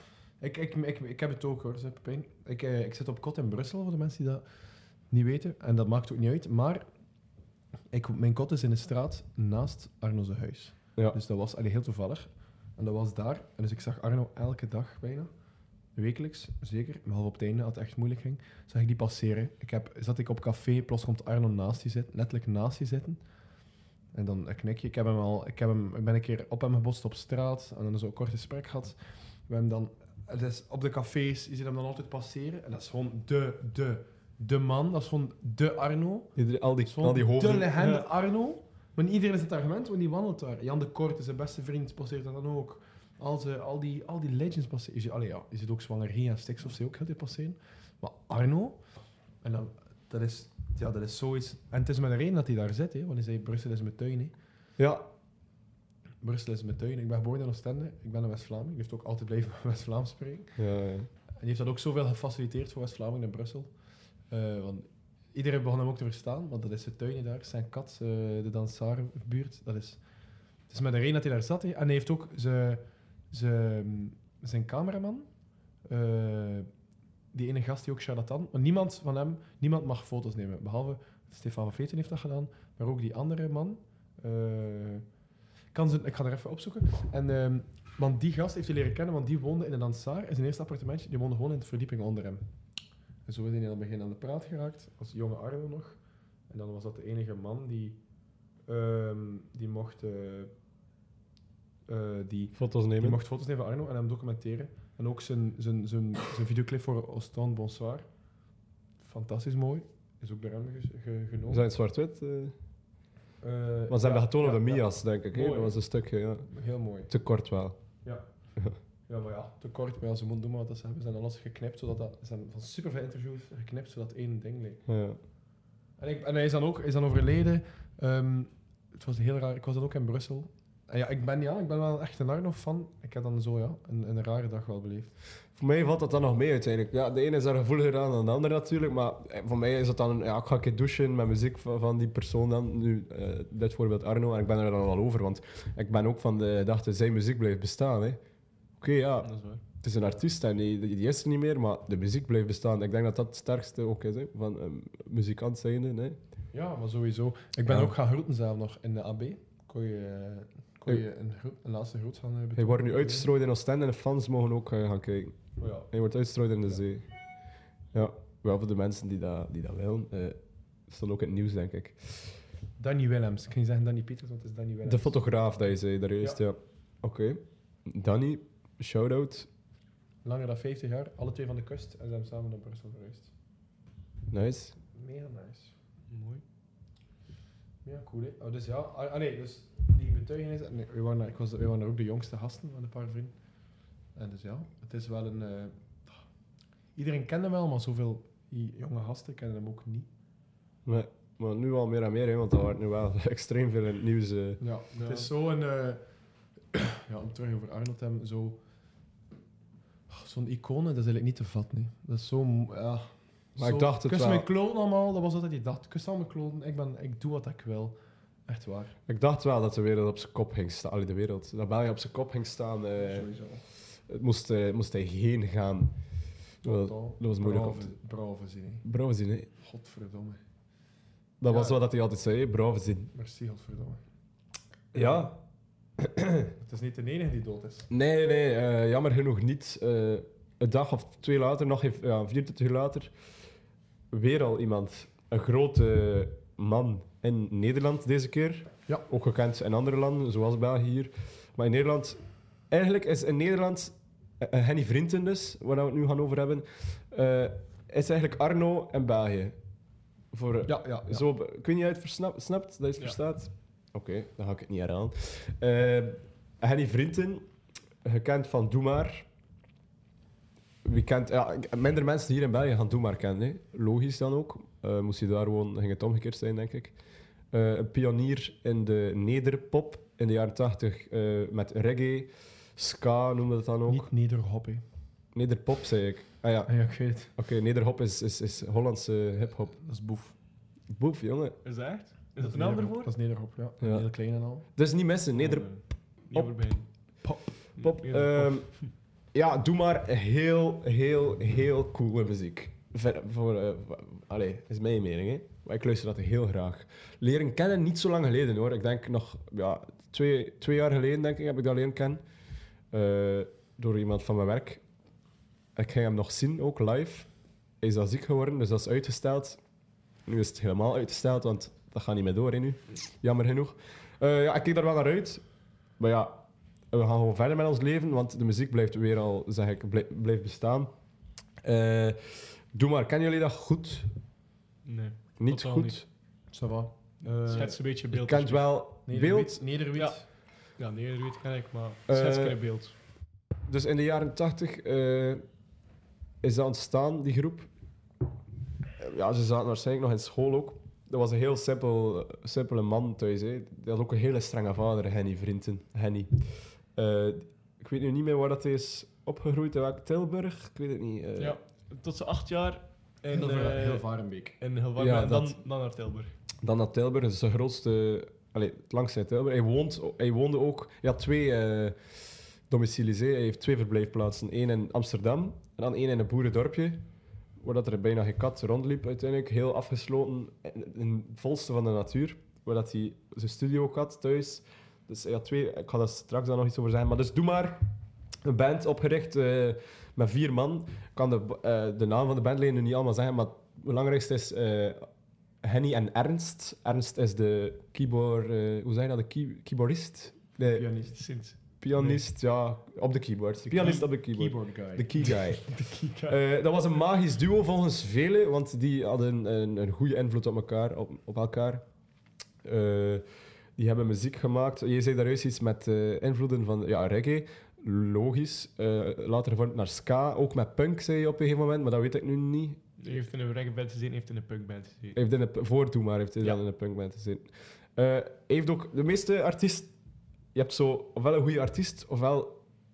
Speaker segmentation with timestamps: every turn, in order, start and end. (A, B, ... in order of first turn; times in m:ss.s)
0:00.4-0:04.4 A
0:05.1-0:06.8 A
0:07.9-0:15.3 A
0:16.0-0:23.2 A
0:24.1-0:48.8 A
0:36.4-0:37.8 B
0:37.8-0:38.0 C
0:49.4-0:54.3 A
0:54.8-0:55.0 B
0:56.2-1:00.6 A
1:00.6-1:01.1 B
1:01.4-1:03.7 A
1:04.3-1:10.0 A
1:10.7-1:15.3 A
1:15.9-1:16.7 A
1:17.3-1:25.0 A
1:25.7-1:32.5 A
1:33.3-1:38.0 A
1:38.7-1:40.5 A
1:41.9-1:48.1 A
1:42.6-1:43.2 B
1:49.0-1:51.6 A
1:51.5-1:52.6 B
1:53.4-1:55.8 A
1:53.9-1:56.5 B
1:56.5-1:57.1 A
1:57.1-1:57.8 B
1:59.1-2:04.8 A
2:04.9-2:05.2 B
2:06.0-2:15.1 A
2:15.6-2:28.2 B
2:28.8-2:36.2 B
2:29.2-2:29.6 C
2:36.5-2:43.3 A
2:37.7-2:37.9 B
2:42.6-2:47.1 B
2:45.6-2:45.9 A
2:47.9-2:50.4 B
2:50.9-2:52.3 B
2:52.8-2:55.2 A
2:54.9-2:59.5 B
3:00.2-3:03.3 A
3:04.3-3:04.8 B
3:04.9-3:05.7 A
3:06.1-3:06.4 C
3:07.8-3:13.3 A
3:14.2-3:16.2 A
3:17.0-3:20.1 A
3:20.9-3:24.6 B
3:24.6-3:26.0 A
3:25.0-3:25.3 C
3:26.7-3:28.6 A
3:30.1-3:38.0 A
3:33.6-3:34.5 B
3:38.5-3:39.0 A
3:39.1-3:43.3 B
3:43.0-3:43.6 A
3:43.9-3:46.0 B
3:46.6-3:47.9 B
3:46.6-3:48.8 A
3:48.8-3:49.5 B
3:49.6-3:50.4 A
3:51.4-3:53.1 B
3:51.5-3:51.8 A
3:53.1-3:54.0 A
3:54.9-3:55.4 B
3:56.0-3:56.5 B
3:56.6-3:57.9 A
3:57.9-4:03.1 B
4:04.1-4:12.2 B
4:12.7-4:19.6 B
4:20.3-4:27.4 B
4:20.7-4:21.2 A
4:28.0-4:29.3 B
4:30.8-4:36.9 B
4:37.5-4:44.1 B
4:43.9-4:44.8 A
4:45.3-4:46.7 B
4:46.7-4:47.3 A
4:47.3-4:49.8 B
4:49.7-4:50.4 A
4:50.9-4:51.6 B
4:51.6-4:53.1 C
4:52.4-4:54.6 A
4:53.8-4:54.1 B
4:54.8-4:55.7 B
4:55.4-4:56.9 C
4:57.8-4:58.9 C
4:57.8-4:58.7 B
4:59.3-5:12.2 B
5:12.9-5:14.8 B
5:15.8-5:17.3 B
5:17.8-5:19.6 B
5:20.3-5:25.4 B
5:26.0-5:30.9 B
5:31.6-5:34.1 B
5:34.8-5:36.0 C
5:35.4-5:36.0 B
5:36.5-5:37.8 A
5:37.3-5:38.7 C
5:38.1-5:39.6 B
5:39.1-5:40.2 A
5:40.8-5:42.9 C
5:42.1-5:42.6 B
5:43.7-5:45.4 B
5:46.4-5:47.7 B
5:49.0-5:56.3 B
5:57.0-6:01.6 B
6:01.4-6:04.1 C
6:03.3-6:04.6 A
6:04.6-6:06.3 C
6:05.0-6:05.5 B
6:06.6-6:12.0 B
6:12.7-6:17.0 B
6:17.6-6:27.8 B
6:28.4-6:35.1 B
6:35.6-6:40.9 B
6:40.7-6:41.2 A
6:41.1-6:42.2 C
6:41.8-6:45.6 B
6:43.6-6:45.3 A
6:45.2-6:46.4 C
6:46.3-6:51.8 B
6:52.6-6:53.2 B
6:53.8-7:02.8 B
7:03.0-7:05.2 C
7:05.1-7:09.9 B
7:10.5-7:12.6 B